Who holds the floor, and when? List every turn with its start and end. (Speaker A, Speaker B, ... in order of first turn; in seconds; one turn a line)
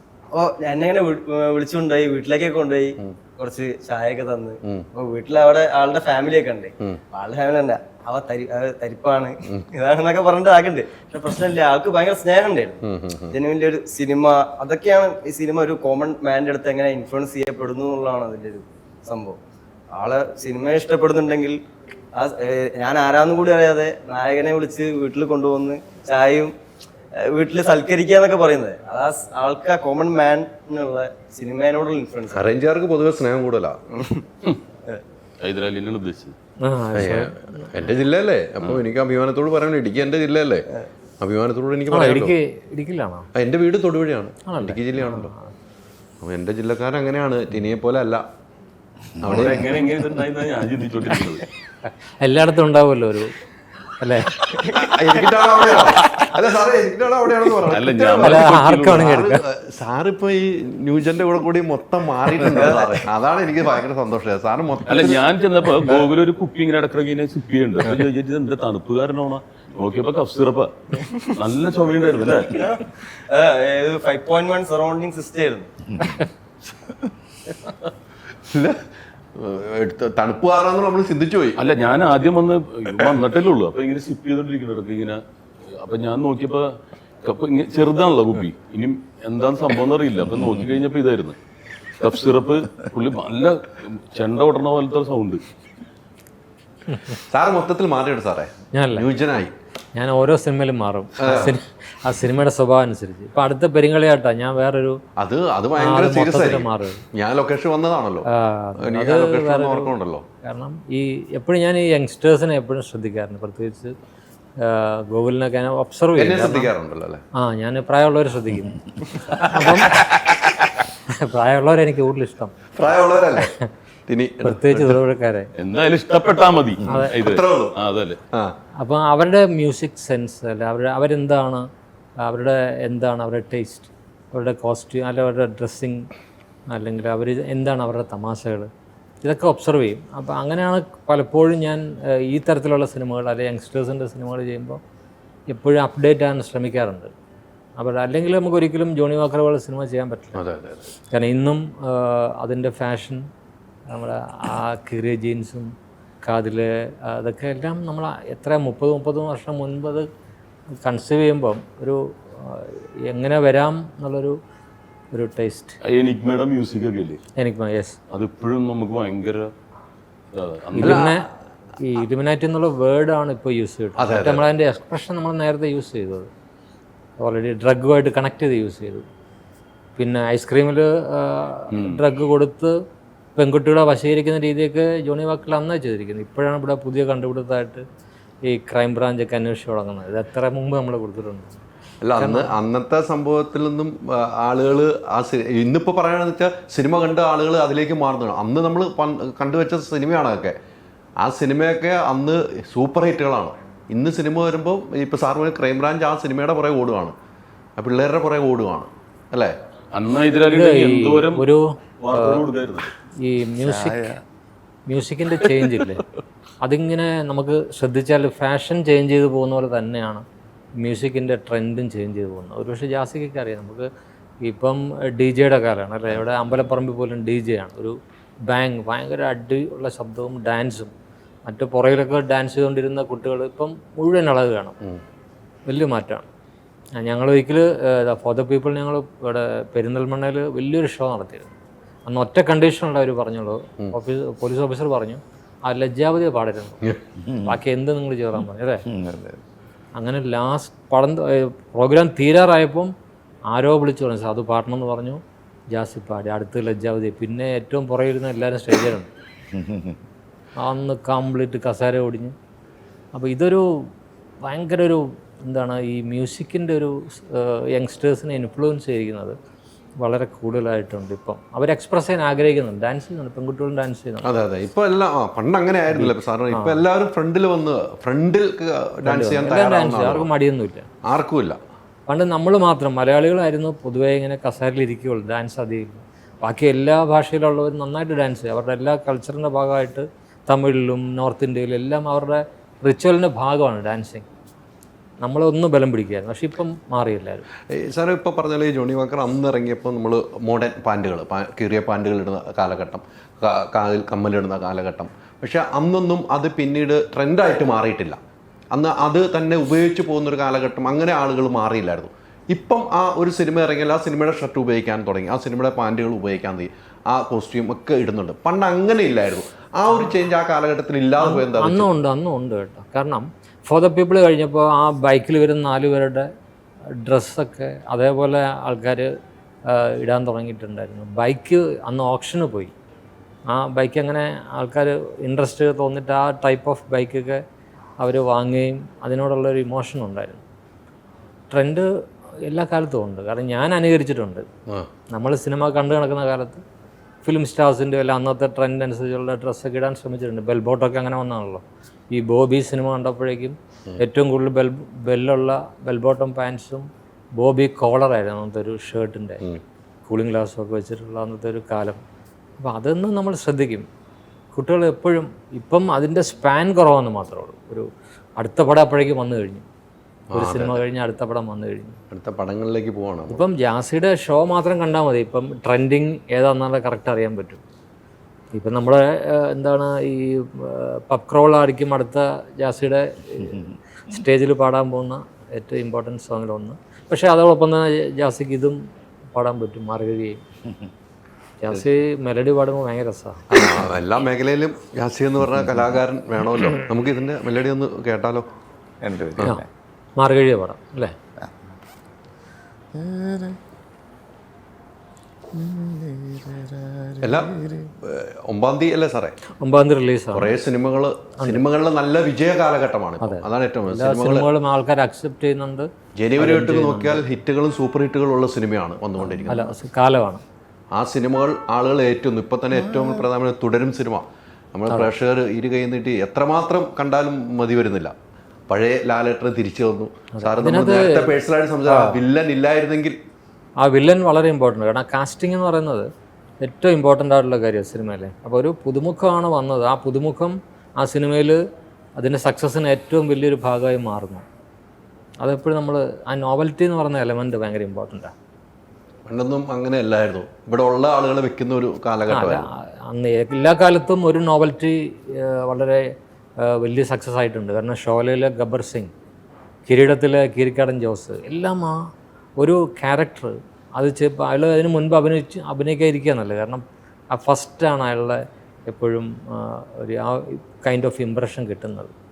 Speaker A: 0.3-12.8
Speaker B: 12.8-13.3
Speaker A: 13.3-19.4
Speaker A: 19.9-21.6
Speaker A: 22.1-26.5
Speaker A: 27.2-32.5
Speaker B: 32.3-33.8
Speaker A: 34.0-34.2
Speaker C: 35.4-36.4
Speaker D: 36.6-37.7
Speaker B: 36.9-40.6
Speaker B: 41.2-42.3
Speaker D: 41.9-43.3
Speaker B: 43.4-45.3
Speaker D: 44.5-45.5
Speaker B: 46.2-48.2
Speaker E: 49.2-49.6
Speaker B: 49.2-49.7
Speaker C: 49.5-51.4
Speaker D: 52.2-53.3
Speaker D: 54.0-54.4
Speaker B: 54.7-65.3
Speaker C: 57.6-58.9
Speaker D: 58.2-59.4
Speaker A: 62.5-62.9
Speaker C: 64.9-70.7
Speaker A: 71.0-71.3
Speaker C: 71.4-72.5
Speaker A: 72.4-75.7
Speaker E: 75.9-76.2
Speaker B: 78.5-78.8
Speaker B: 79.3-81.8
Speaker C: 81.6-85.2
Speaker C: 85.7-86.6
Speaker C: 87.2-91.4
Speaker C: 92.0-95.4
Speaker B: 97.2-99.5
Speaker D: 98.7-99.1
Speaker D: 100.0-105.0
Speaker B: 101.2-101.6
Speaker B: 105.2-108.3
Speaker D: 105.8-107.0
Speaker D: 108.3-113.9
Speaker B: 108.8-110.2
Speaker D: 114.6-116.7
Speaker B: 116.2-117.2
Speaker D: 117.3-120.0
Speaker B: 119.2-120.8
Speaker D: 121.1-122.5
Speaker B: 122.8-123.5
Speaker B: 124.1-125.0
Speaker D: 124.4-125.5
Speaker C: 125.6-128.2
Speaker D: 126.8-127.1
Speaker B: 126.9-127.8
Speaker D: 128.8-131.6
Speaker D: 132.2-136.1
Speaker D: 136.7-138.7
Speaker D: 139.2-144.8
Speaker D: 145.5-147.1
Speaker D: 147.8-150.4
Speaker B: 150.3-150.8
Speaker D: 151.1-153.2
Speaker D: 153.9-155.7
Speaker D: 156.2-160.1
Speaker D: 160.8-164.3
Speaker D: 165.1-165.8
Speaker C: 165.8-167.2
Speaker D: 167.4-168.0
Speaker C: 168.1-169.5
Speaker C: 170.3-170.9
Speaker D: 170.7-171.2
Speaker B: 170.8-171.2
Speaker D: 171.8-176.3
Speaker B: 174.0-174.5
Speaker D: 177.2-179.0
Speaker D: 179.9-182.7
Speaker C: 181.7-182.0
Speaker D: 183.3-187.8
Speaker D: 188.5-191.6
Speaker B: 192.0-200.5
Speaker D: 192.2-192.5
Speaker B: 201.2-207.2
Speaker B: 207.8-209.5
Speaker C: 209.9-211.4
Speaker D: 210.4-212.4
Speaker C: 212.0-212.9
Speaker D: 213.2-214.1
Speaker E: 213.6-214.2
Speaker D: 214.9-216.0
Speaker D: 216.6-220.2
Speaker D: 220.8-223.9
Speaker D: 224.4-227.9
Speaker B: 226.1-226.6
Speaker D: 228.5-230.9
Speaker D: 231.4-234.8
Speaker D: 235.7-236.2
Speaker D: 237.0-241.5
Speaker D: 242.1-246.8
Speaker E: 247.2-247.6
Speaker D: 247.4-248.8
Speaker E: 248.9-249.4
Speaker D: 249.9-252.9
Speaker D: 253.5-255.2
Speaker D: 255.7-259.1
Speaker E: 259.5-260.0
Speaker D: 260.6-262.3
Speaker D: 263.1-263.8
Speaker D: 264.4-269.4
Speaker D: 270.0-274.3
Speaker B: 274.2-280.3
Speaker D: 275.9-276.8
Speaker D: 279.0-280.9
Speaker B: 281.1-281.6
Speaker D: 282.1-294.3
Speaker D: 295.2-297.4
Speaker B: 297.8-308.2
Speaker B: 308.7-321.9
Speaker D: 321.2-326.3
Speaker D: 327.0-329.1
Speaker D: 329.7-332.7
Speaker D: 333.5-337.4
Speaker D: 338.0-340.4
Speaker D: 341.5-341.9
Speaker D: 342.4-344.4
Speaker D: 345.1-346.6
Speaker D: 347.2-359.4
Speaker D: 360.1-362.0
Speaker D: 362.6-363.9
Speaker D: 364.5-367.9
Speaker D: 368.4-369.6
Speaker B: 370.3-370.8
Speaker D: 370.3-372.0
Speaker B: 372.1-373.4
Speaker D: 373.3-377.6
Speaker D: 378.5-388.8
Speaker D: 389.3-390.4
Speaker D: 391.6-393.7
Speaker B: 393.5-398.4
Speaker E: 399.0-399.7
Speaker D: 400.2-401.1
Speaker E: 402.9-403.6
Speaker E: 405.6-407.9
Speaker B: 407.2-407.5
Speaker B: 408.0-409.3
Speaker D: 409.6-410.5
Speaker B: 410.3-414.5
Speaker D: 413.2-417.2
Speaker B: 416.2-419.8
Speaker D: 419.5-420.4
Speaker B: 420.9-428.1
Speaker E: 422.7-423.3
Speaker B: 428.7-433.2
Speaker D: 430.3-432.2
Speaker D: 433.8-436.1
Speaker D: 436.6-441.6
Speaker D: 442.2-444.4
Speaker D: 445.4-448.3
Speaker B: 449.2-452.7
Speaker D: 452.3-456.1
Speaker D: 456.6-459.1
Speaker D: 459.9-462.0
Speaker D: 462.6-472.1